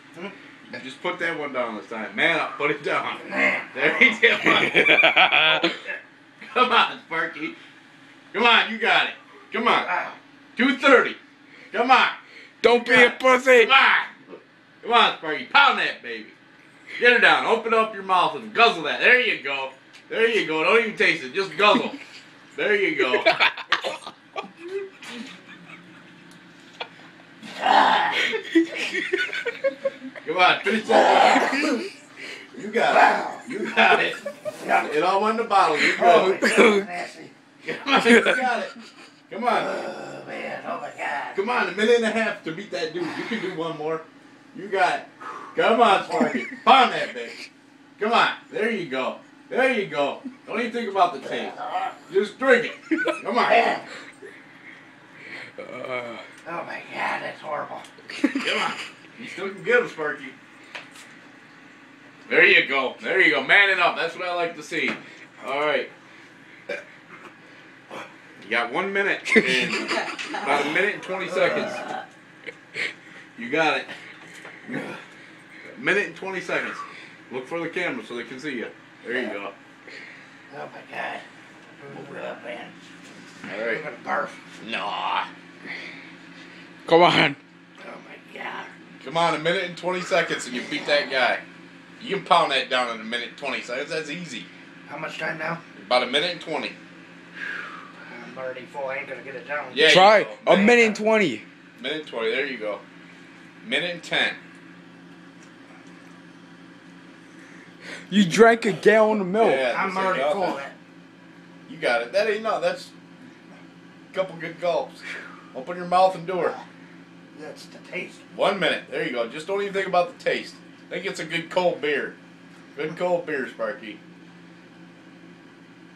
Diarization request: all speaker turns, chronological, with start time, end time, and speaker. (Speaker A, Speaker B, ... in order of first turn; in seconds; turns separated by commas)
Speaker A: 0.7-5.2, Speaker B: 3.2-4.2, Speaker C: 4.7-5.7, Speaker A: 6.4-7.5, Speaker A: 8.3-9.9, Speaker B: 9.7-10.2, Speaker A: 10.6-11.2, Speaker A: 11.7-12.2, Speaker C: 12.6-13.7, Speaker B: 12.8-13.1, Speaker A: 13.5-14.2, Speaker A: 14.8-16.3, Speaker A: 17.0-22.0, Speaker A: 22.5-23.4, Speaker B: 27.6-28.1, Speaker A: 30.2-31.8, Speaker B: 31.0-31.5, Speaker A: 32.5-36.4, Speaker B: 32.9-33.4, Speaker B: 34.5-34.9, Speaker B: 35.9-37.3, Speaker C: 36.3-36.8, Speaker A: 37.6-38.7, Speaker A: 39.3-39.8, Speaker B: 39.5-41.4, Speaker A: 41.3-47.4, Speaker A: 48.0-51.6, Speaker B: 51.2-51.9, Speaker A: 52.1-53.6, Speaker B: 53.4-53.9, Speaker C: 55.6-56.2, Speaker B: 56.4-57.9, Speaker A: 58.4-60.4, Speaker A: 62.3-65.9, Speaker A: 68.4-71.8, Speaker A: 73.3-73.9, Speaker A: 74.6-74.9, Speaker A: 75.7-79.5, Speaker B: 80.5-81.2, Speaker B: 81.8-82.8, Speaker A: 81.9-82.2, Speaker A: 83.5-83.8, Speaker B: 83.6-84.4, Speaker A: 84.6-85.3, Speaker C: 86.8-87.4, Speaker B: 87.8-88.7, Speaker A: 89.0-91.4, Speaker A: 92.0-94.5, Speaker B: 94.8-95.6, Speaker A: 95.8-96.8, Speaker B: 98.1-100.0, Speaker A: 99.7-101.0, Speaker C: 99.8-101.4, Speaker A: 101.8-102.8, Speaker A: 103.6-104.4, Speaker C: 108.1-109.7, Speaker A: 109.4-110.6, Speaker B: 109.7-110.7, Speaker A: 111.7-112.9, Speaker A: 114.1-116.6, Speaker B: 117.3-118.2, Speaker A: 118.3-122.2, Speaker A: 122.7-124.0